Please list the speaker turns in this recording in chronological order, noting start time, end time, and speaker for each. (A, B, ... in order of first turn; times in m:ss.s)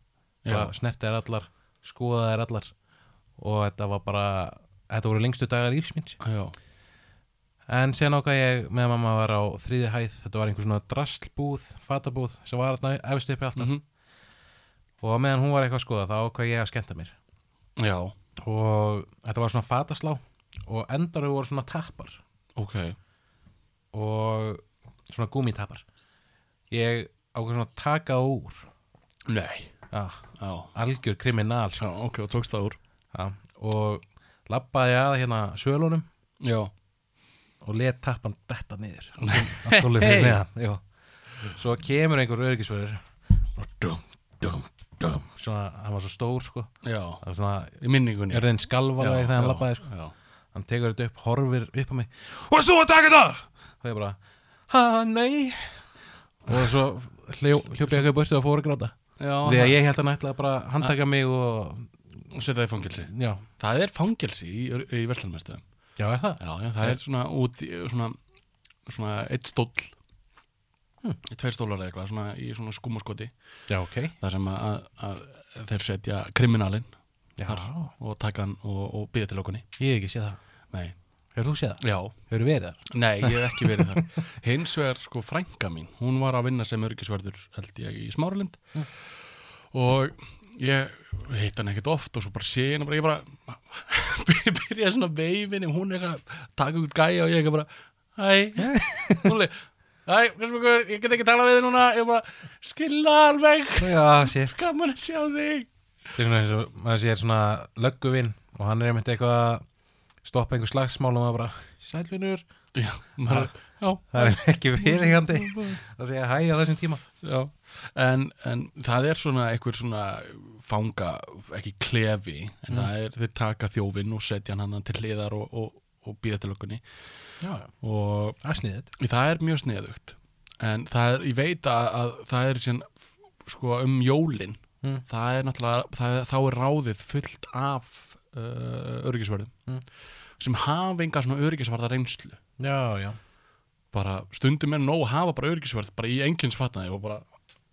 0:00.4-0:00.7 A
0:00.5-0:02.7 B
0:03.4-0:06.2 B
0:06.2-0:06.6 A
0:07.7-0:13.7 B
0:13.6-0:13.8 A
0:15.0-0:17.2 B
0:17.8-0:18.2 A
0:18.4-0:22.2 B
0:22.6-0:23.0 A
0:23.9-0:25.8 B
0:26.7-0:28.7 B
0:29.3-0:29.7 A
0:29.9-0:31.9 B
0:30.4-0:30.7 A
0:31.8-0:32.8 A
0:33.1-0:36.0 B
0:36.4-0:36.7 A
0:37.6-0:40.8 B
0:39.2-0:40.4 A
0:41.4-0:49.9 B
0:46.8-0:47.2 A
0:47.8-0:50.1 A
0:50.5-0:54.2 B
0:54.7-0:55.9 B
0:56.4-1:01.9 B
0:59.2-0:59.8 A
1:02.3-1:05.6 A
1:03.1-1:03.4 B
1:06.0-1:07.0 B
1:06.4-1:08.2 A
1:08.9-1:10.0 A
1:11.2-1:13.3 A
1:13.7-1:14.1 B
1:14.2-1:16.9 A
1:17.4-1:17.9 B
1:17.4-1:19.7 A
1:19.8-1:20.4 B
1:20.7-1:21.0 A
1:21.4-1:24.0 B
1:21.8-1:22.2 A
1:22.9-1:29.1 A
1:29.7-1:45.7 A
1:38.6-1:39.3 B
1:43.8-1:44.6 B
1:46.2-1:49.6 B
1:50.2-1:52.4 B
1:52.8-1:55.8 A
1:53.3-1:53.5 B
1:54.1-1:57.0 B
1:57.2-2:06.8 A
2:07.4-2:07.7 B
2:07.8-2:08.4 A
2:08.4-2:08.9 B
2:09.0-2:19.5 A
2:20.4-2:22.4 A
2:22.6-2:23.2 B
2:23.9-2:27.3 A